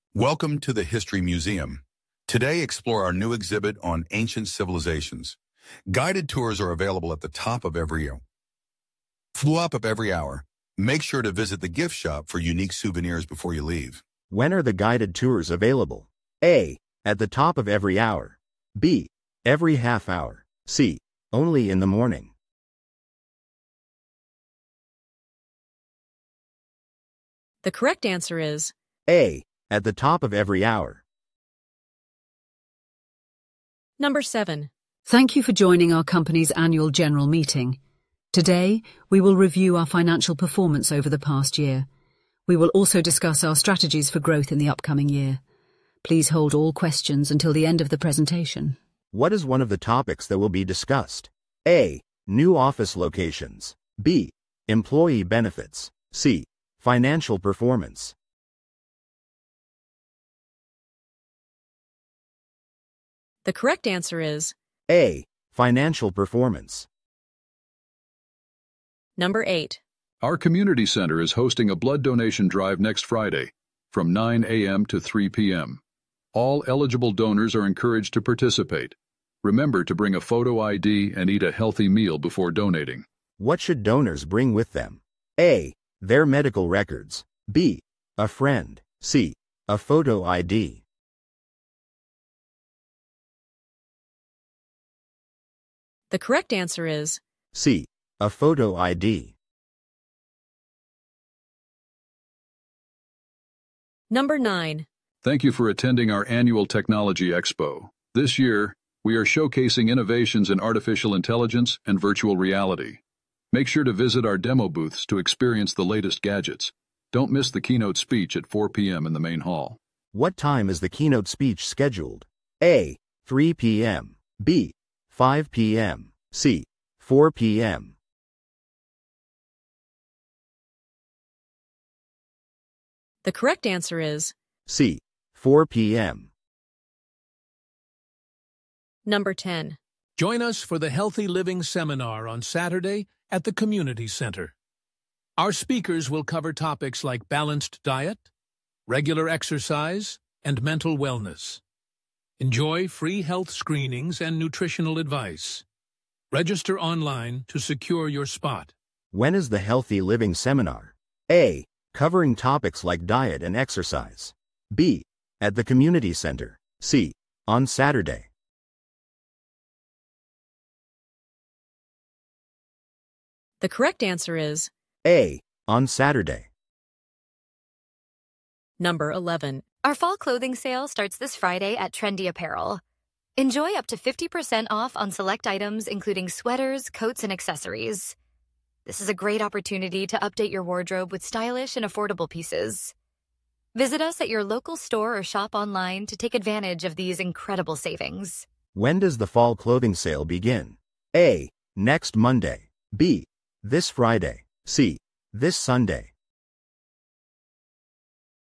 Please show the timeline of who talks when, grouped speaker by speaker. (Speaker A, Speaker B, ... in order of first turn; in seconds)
Speaker A: 0.1-5.4, 5.9-8.2, 9.3-14.0
Speaker B: 14.3-22.3, 29.1-31.0, 49.1-58.1, 64.9-66.9, 83.4-90.8, 97.5-99.3, 120.1-128.0, 134.7-136.3, 159.1-168.3, 175.1-176.5, 198.7-206.1
Speaker C: 27.6-28.7, 34.0-34.7, 63.4-64.5, 69.2-69.8, 96.1-97.2, 104.1-104.9, 133.2-134.3, 139.1-139.8, 173.6-174.7, 178.8-179.6
Speaker D: 35.0-37.8, 38.3-41.9, 42.5-45.4, 46.0-48.8
Speaker E: 70.2-75.8, 76.3-83.0, 105.2-113.0, 113.5-119.8
Speaker F: 140.2-144.5, 145.4-148.3, 148.9-151.6, 152.4-155.6, 156.3-158.7
Speaker G: 179.8-182.8, 183.4-188.2, 188.9-192.9, 193.8-198.5